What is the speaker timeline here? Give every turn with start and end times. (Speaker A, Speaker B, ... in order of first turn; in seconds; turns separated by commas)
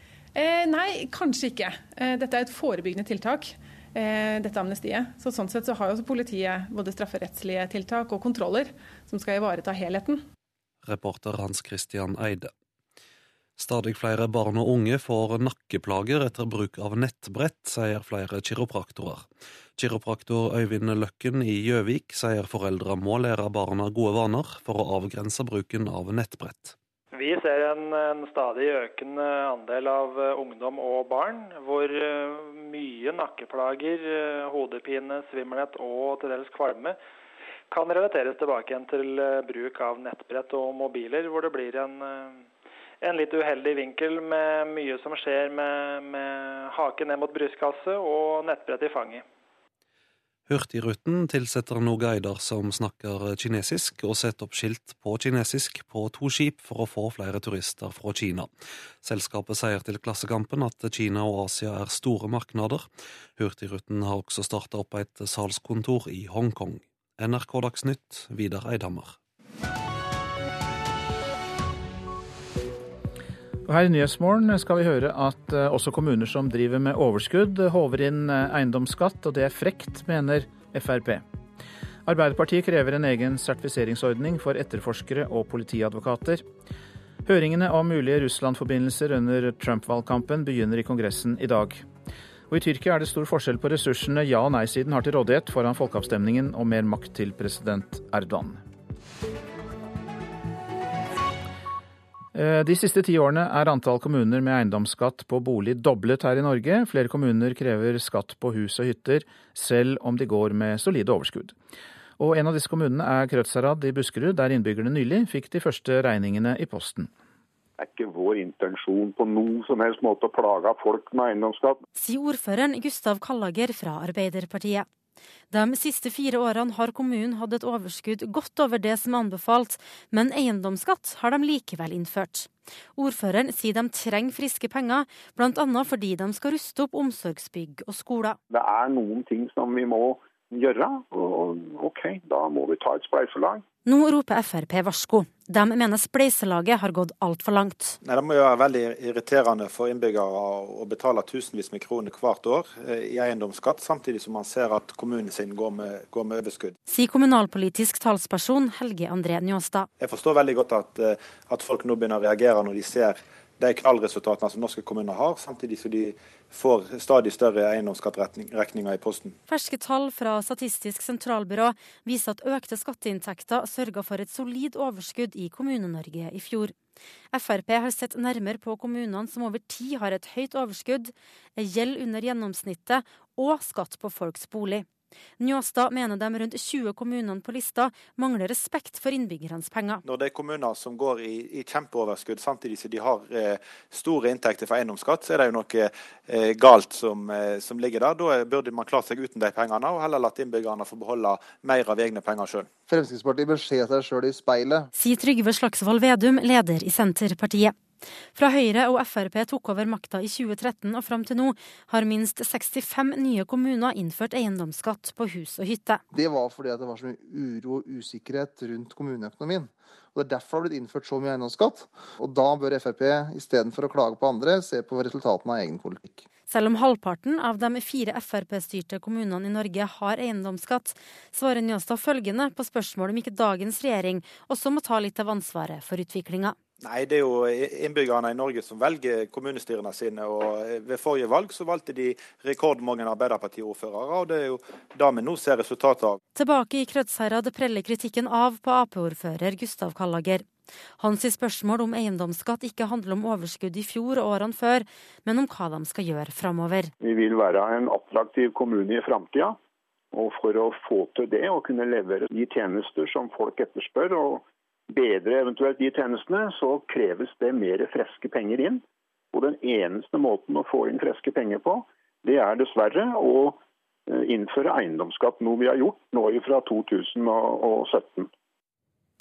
Speaker A: 0.3-10.2, Speaker B: 10.8-12.5, Speaker B: 13.6-19.2, Speaker B: 19.8-26.7, Speaker C: 27.1-37.0, Speaker C: 37.7-42.4, Speaker C: 43.0-49.2, Speaker B: 50.5-58.5, Speaker B: 59.0-62.9, Speaker B: 63.4-69.1, Speaker D: 73.7-81.2, Speaker D: 82.0-86.4, Speaker D: 87.2-91.8, Speaker D: 92.5-98.6, Speaker D: 102.3-111.5, Speaker D: 112.2-117.1, Speaker E: 117.8-121.8, Speaker F: 122.0-124.9, Speaker F: 125.5-138.4, Speaker E: 138.5-143.6, Speaker F: 143.8-148.0, Speaker G: 148.0-156.7, Speaker F: 156.9-159.9, Speaker G: 160.0-169.3, Speaker F: 169.5-176.7, Speaker F: 177.3-184.8, Speaker F: 185.4-190.0, Speaker G: 190.0-202.7, Speaker H: 202.9-204.9, Speaker F: 204.9-207.7, Speaker F: 208.3-216.0, Speaker H: 216.1-226.2, Speaker F: 226.5-236.6, Speaker G: 236.8-246.2, Speaker F: 246.3-250.5, Speaker F: 251.0-256.9, Speaker E: 257.0-259.6, Speaker E: 260.1-268.8, Speaker E: 269.3-278.3